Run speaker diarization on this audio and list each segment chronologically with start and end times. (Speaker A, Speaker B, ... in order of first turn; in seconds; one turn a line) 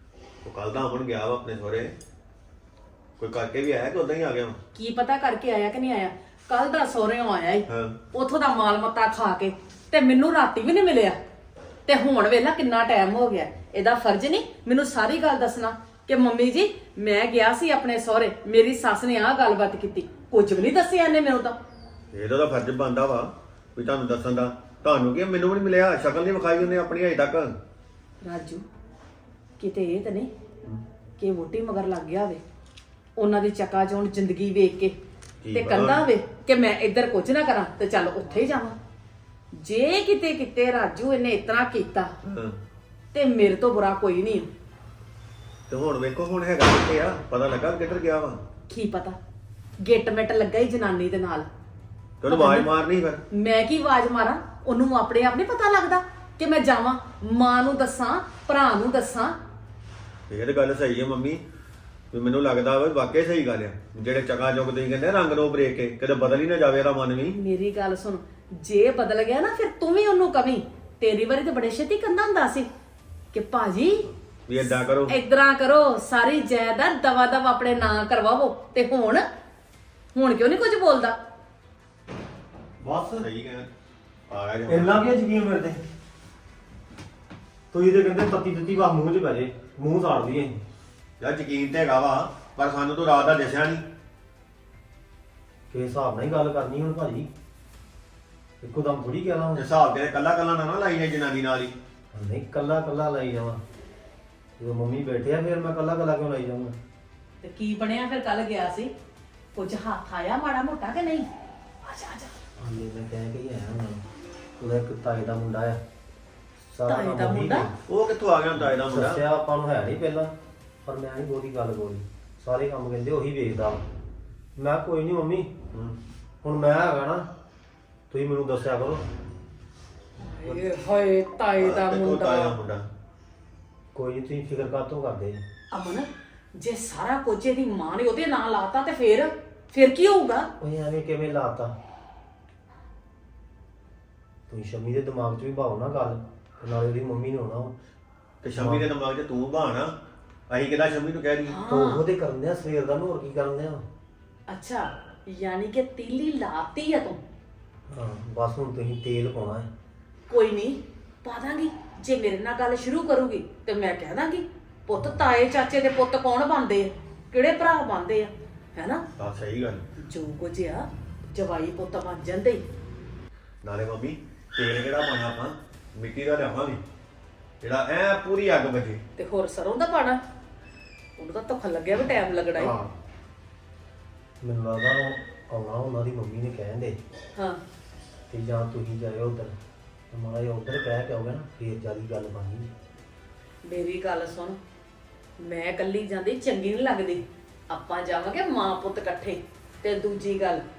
Speaker A: 0.5-2.0
Speaker A: 3.2-4.6
Speaker B: 4.8-11.2
Speaker A: 7.7-8.0
Speaker B: 11.9-21.6
Speaker A: 22.1-27.6
Speaker B: 28.2-28.6
Speaker B: 29.6-30.3
Speaker B: 31.2-32.4
Speaker B: 33.2-35.0
Speaker A: 35.4-36.1
Speaker B: 35.5-38.8
Speaker B: 39.5-42.1
Speaker A: 42.3-42.6
Speaker B: 43.1-44.5
Speaker A: 45.7-48.4
Speaker B: 48.7-49.2
Speaker B: 49.8-51.5
Speaker A: 52.2-53.2
Speaker B: 52.3-52.7
Speaker B: 53.3-59.4
Speaker A: 60.3-61.4
Speaker A: 62.1-67.4
Speaker B: 67.4-72.7
Speaker B: 73.3-74.1
Speaker A: 74.5-75.2
Speaker B: 75.1-79.2
Speaker B: 80.2-81.2
Speaker C: 82.8-83.3
Speaker A: 83.2-83.7
Speaker A: 84.3-85.1
Speaker C: 84.7-85.8
Speaker C: 87.7-90.6
Speaker A: 91.2-93.8
Speaker C: 95.7-97.3
Speaker C: 98.6-99.6
Speaker A: 99.6-101.7
Speaker C: 102.1-103.6
Speaker C: 104.6-106.8
Speaker B: 107.4-108.9
Speaker B: 109.5-111.3
Speaker B: 111.8-112.3
Speaker C: 112.6-114.0
Speaker C: 114.6-115.8
Speaker C: 116.7-117.7
Speaker B: 116.9-117.7
Speaker A: 117.9-119.2
Speaker C: 118.8-120.3
Speaker C: 120.8-123.8
Speaker C: 124.6-125.5
Speaker A: 125.7-126.0
Speaker C: 126.4-127.3
Speaker C: 128.1-129.0
Speaker B: 130.2-132.6
Speaker A: 131.6-132.9
Speaker C: 133.9-135.4
Speaker B: 135.7-140.5
Speaker C: 140.6-141.7
Speaker C: 144.5-147.8
Speaker A: 148.4-150.0
Speaker C: 148.5-148.8
Speaker A: 150.5-151.6
Speaker B: 151.5-152.0
Speaker C: 151.7-153.9
Speaker B: 154.5-157.2
Speaker C: 157.9-159.7
Speaker B: 160.3-169.0
Speaker A: 169.2-169.8
Speaker B: 170.0-172.6
Speaker A: 173.6-176.8
Speaker A: 177.6-179.0
Speaker B: 179.2-180.2
Speaker B: 181.2-182.7
Speaker C: 184.4-187.0
Speaker B: 187.3-187.6
Speaker C: 188.3-189.6
Speaker C: 190.1-192.7
Speaker B: 193.7-194.6
Speaker B: 195.4-200.6